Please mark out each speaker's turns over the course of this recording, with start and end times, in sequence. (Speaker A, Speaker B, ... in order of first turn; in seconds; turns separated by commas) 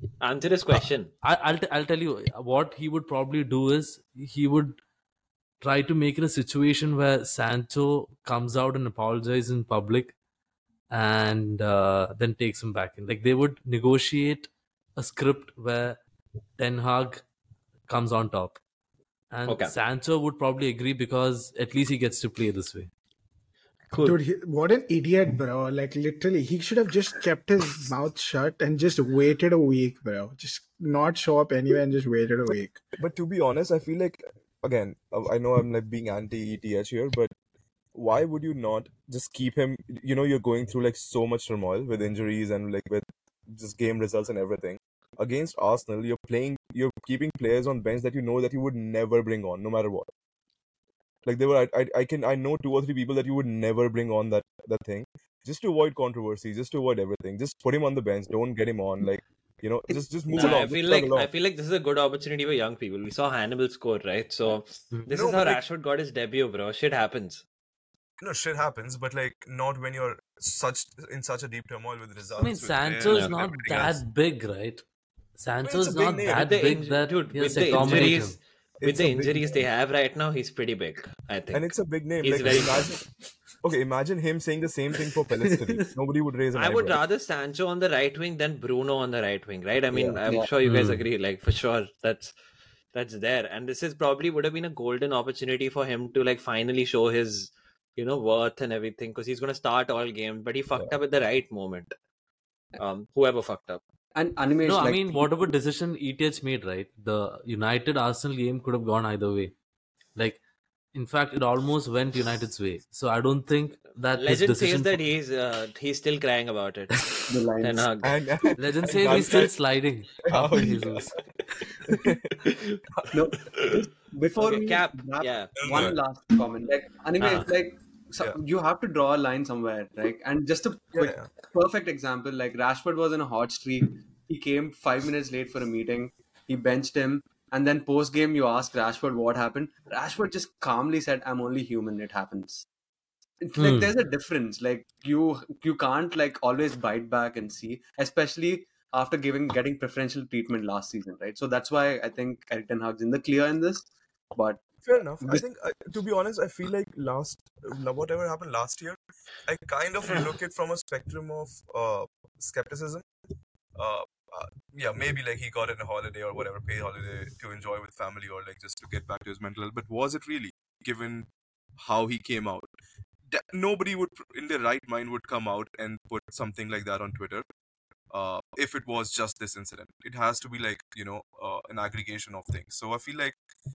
Speaker A: 0.2-1.1, Speaker B: 0.7-4.8, Speaker B: 5.6-10.1, Speaker B: 10.9-16.0, Speaker B: 16.6-17.2, Speaker B: 17.9-18.6, Speaker B: 19.3-22.9, Speaker A: 19.5-19.7, Speaker A: 23.9-24.2, Speaker C: 24.0-32.8, Speaker D: 33.0-37.3, Speaker D: 37.9-50.1, Speaker D: 51.2-61.3, Speaker A: 60.3-67.4, Speaker D: 65.1-65.6, Speaker D: 68.2-74.0, Speaker B: 72.4-74.8, Speaker A: 73.1-73.4, Speaker B: 75.4-78.4, Speaker D: 75.6-76.8, Speaker A: 76.3-82.9, Speaker D: 77.7-78.2, Speaker D: 78.8-79.6, Speaker D: 81.5-83.0, Speaker D: 83.6-87.0, Speaker A: 86.5-92.3, Speaker E: 89.9-90.5, Speaker B: 90.6-91.0, Speaker A: 92.9-101.9, Speaker A: 102.8-103.8, Speaker E: 104.1-105.3, Speaker B: 104.6-109.6, Speaker B: 110.1-110.4, Speaker B: 110.9-115.0, Speaker A: 114.1-116.9, Speaker E: 117.3-117.9, Speaker A: 117.6-118.1, Speaker D: 118.0-119.5, Speaker B: 118.6-121.1, Speaker D: 120.2-121.2, Speaker D: 121.9-123.1, Speaker E: 123.1-142.6, Speaker A: 124.4-125.6, Speaker D: 125.6-126.0, Speaker A: 127.2-127.5, Speaker D: 130.9-131.3, Speaker E: 143.4-154.7, Speaker B: 143.6-143.9, Speaker D: 154.8-163.1, Speaker D: 163.8-172.7, Speaker D: 173.3-177.4, Speaker D: 178.1-183.4